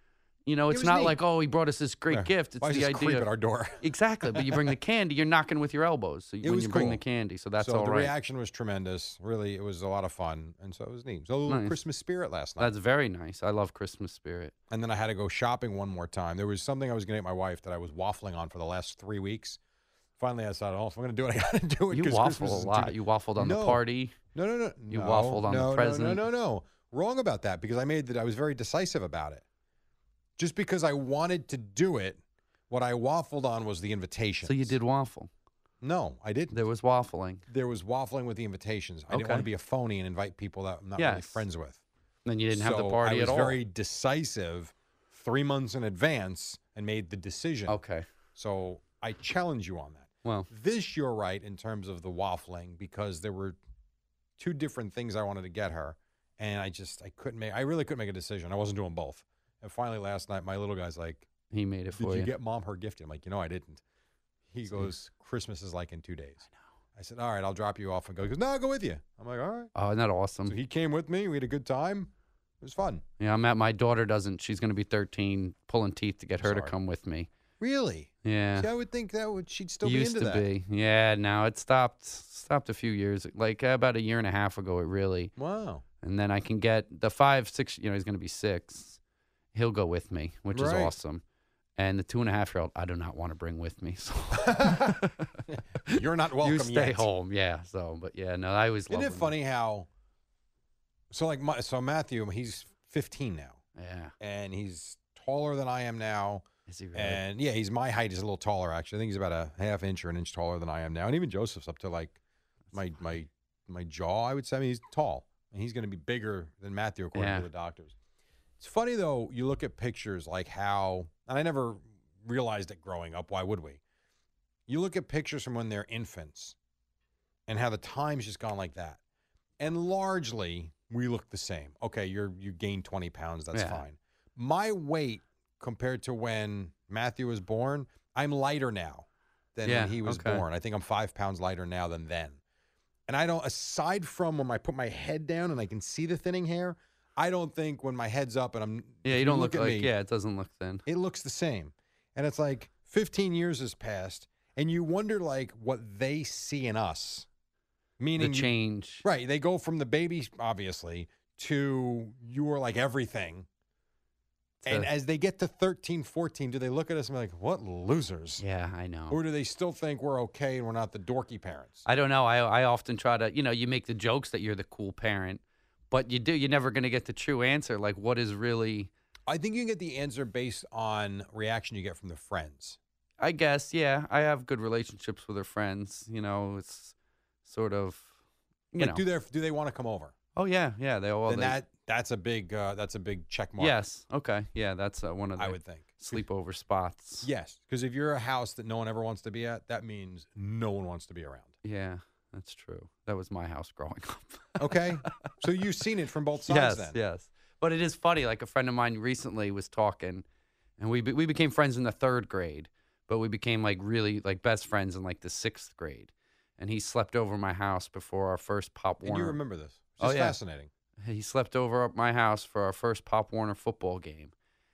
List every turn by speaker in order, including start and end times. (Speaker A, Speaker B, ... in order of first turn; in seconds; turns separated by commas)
Speaker A: 0.4-3.3, Speaker B: 0.7-1.2, Speaker B: 2.1-4.8, Speaker A: 3.8-8.1, Speaker B: 6.4-7.0, Speaker B: 7.6-12.7, Speaker A: 11.4-11.8, Speaker A: 12.6-14.5, Speaker B: 14.7-19.6, Speaker B: 20.2-23.8, Speaker A: 21.9-24.1, Speaker B: 24.3-29.4, Speaker A: 24.9-26.2, Speaker B: 30.4-34.8, Speaker A: 34.4-35.3, Speaker B: 35.8-36.6, Speaker A: 36.5-37.4, Speaker B: 37.5-41.8, Speaker A: 39.1-39.5, Speaker A: 41.0-41.4, Speaker A: 42.2-43.6, Speaker B: 42.5-47.8, Speaker A: 47.7-48.0, Speaker B: 48.4-53.6, Speaker A: 50.2-50.5, Speaker B: 54.4-61.3, Speaker A: 61.5-62.3, Speaker B: 62.0-63.8, Speaker B: 64.5-69.7, Speaker A: 64.7-64.9, Speaker A: 69.8-70.5, Speaker B: 70.5-73.0, Speaker A: 73.2-77.3, Speaker B: 76.4-76.7, Speaker B: 77.6-80.5, Speaker A: 78.2-78.7, Speaker A: 79.8-85.3, Speaker B: 85.4-85.8, Speaker A: 86.0-89.0, Speaker A: 89.5-91.2, Speaker B: 90.5-90.9, Speaker A: 91.8-99.3, Speaker B: 94.3-97.1, Speaker B: 98.9-99.9, Speaker B: 101.1-103.6, Speaker A: 103.8-104.1, Speaker B: 104.2-112.2, Speaker A: 106.7-107.2, Speaker B: 112.7-117.9, Speaker A: 117.1-117.5, Speaker B: 118.6-123.8, Speaker B: 124.7-126.5, Speaker B: 127.5-129.0, Speaker B: 129.6-142.4, Speaker A: 133.5-133.8, Speaker A: 139.6-140.4, Speaker B: 143.1-149.9, Speaker A: 149.0-150.8, Speaker B: 150.9-157.3, Speaker B: 158.0-163.4, Speaker A: 158.2-159.0, Speaker A: 164.6-164.9, Speaker B: 164.6-168.4, Speaker A: 168.4-169.2, Speaker B: 169.1-171.8, Speaker A: 171.8-178.9, Speaker B: 179.3-182.8, Speaker A: 183.2-188.1, Speaker A: 188.7-189.0, Speaker B: 188.8-190.1, Speaker A: 190.3-191.6, Speaker B: 191.2-193.8, Speaker A: 193.6-197.3, Speaker B: 195.4-196.2, Speaker B: 197.2-201.5, Speaker A: 201.6-205.3, Speaker B: 204.6-207.0, Speaker A: 206.4-210.2, Speaker A: 210.8-219.4, Speaker B: 219.0-220.7, Speaker A: 220.0-220.4, Speaker A: 221.0-224.3